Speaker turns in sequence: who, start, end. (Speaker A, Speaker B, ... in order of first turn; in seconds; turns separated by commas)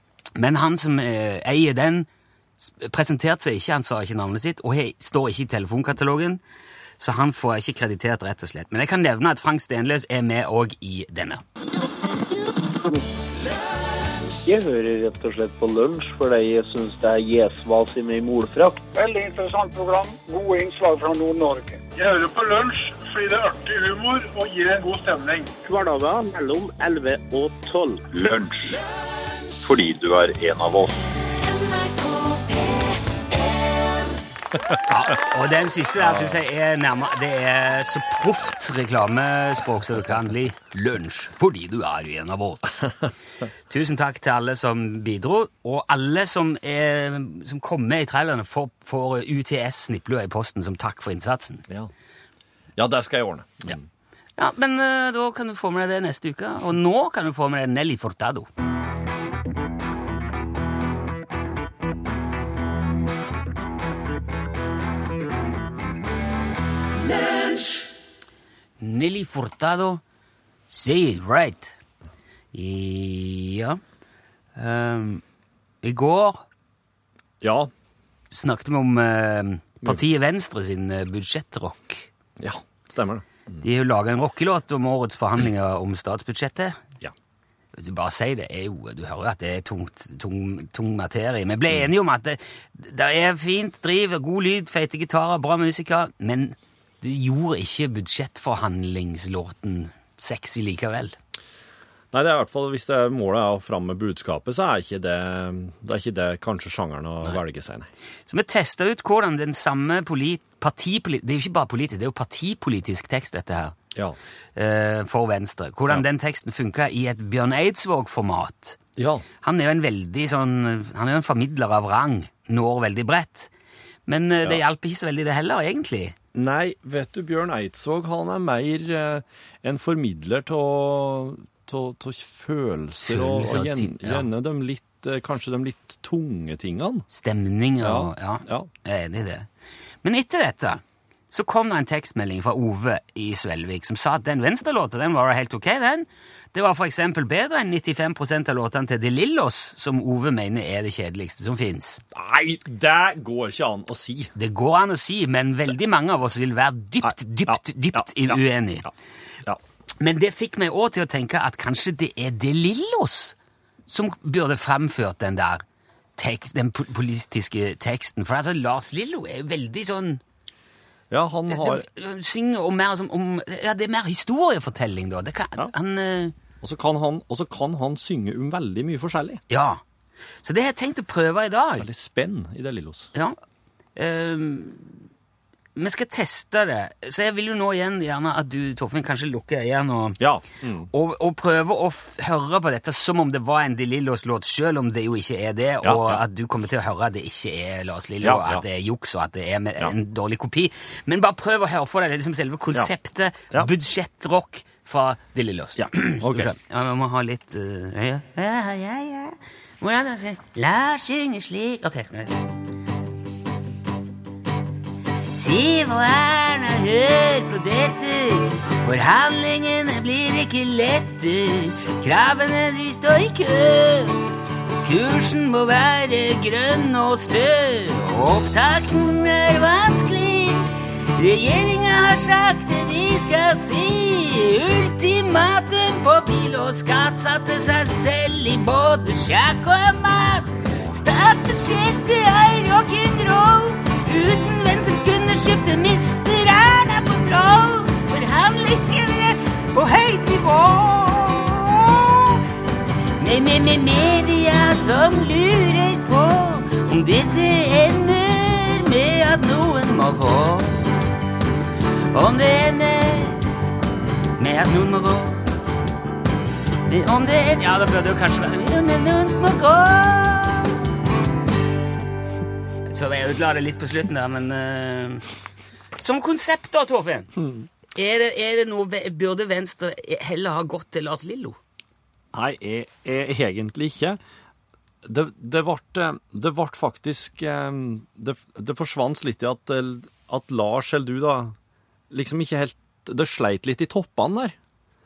Speaker A: 0.3-2.1, Speaker A: 2.6-6.4, Speaker A: 7.0-11.4, Speaker B: 14.4-18.8, Speaker C: 18.9-25.5, Speaker D: 25.6-28.1, Speaker E: 28.1-28.8, Speaker E: 29.6-31.1, Speaker A: 34.9-42.8, Speaker F: 36.0-36.4, Speaker A: 43.7-51.6, Speaker F: 52.8-53.8, Speaker A: 54.4-58.5, Speaker A: 68.8-70.0, Speaker A: 70.7-71.7, Speaker A: 72.5-73.8, Speaker A: 74.5-75.2, Speaker A: 75.8-76.4, Speaker F: 77.4-77.7, Speaker A: 78.3-82.1, Speaker F: 82.4-83.6, Speaker A: 83.6-86.8, Speaker A: 87.7-101.1, Speaker F: 102.1-107.9, Speaker A: 108.3-113.8, Speaker A: 114.5-118.8, Speaker F: 119.0-119.2, Speaker A: 119.4-123.5, Speaker A: 124.1-126.2, Speaker F: 126.3-137.1, Speaker A: 133.0-134.3, Speaker A: 137.1-139.5, Speaker F: 137.8-138.7, Speaker A: 140.0-152.0, Speaker F: 152.1-154.3, Speaker A: 154.3-158.9, Speaker F: 157.0-158.9, Speaker A: 160.0-163.3, Speaker A: 163.9-165.6, Speaker A: 166.2-170.2, Speaker F: 171.1-171.8, Speaker A: 171.5-176.3, Speaker F: 176.6-179.4, Speaker A: 179.5-179.8, Speaker A: 180.4-181.9, Speaker F: 181.8-183.1, Speaker A: 183.9-185.0, Speaker A: 185.8-190.2, Speaker F: 190.2-190.9, Speaker A: 190.9-212.3, Speaker F: 195.8-196.2, Speaker F: 198.2-198.6, Speaker F: 205.8-206.5, Speaker A: 215.3-224.2, Speaker A: 224.8-252.4, Speaker A: 253.2-261.0, Speaker A: 262.1-263.4, Speaker A: 264.4-265.4, Speaker A: 266.9-270.8, Speaker A: 272.9-275.2, Speaker A: 276.0-277.4, Speaker A: 277.9-281.6, Speaker F: 282.3-284.2, Speaker F: 285.0-291.5, Speaker F: 292.1-294.5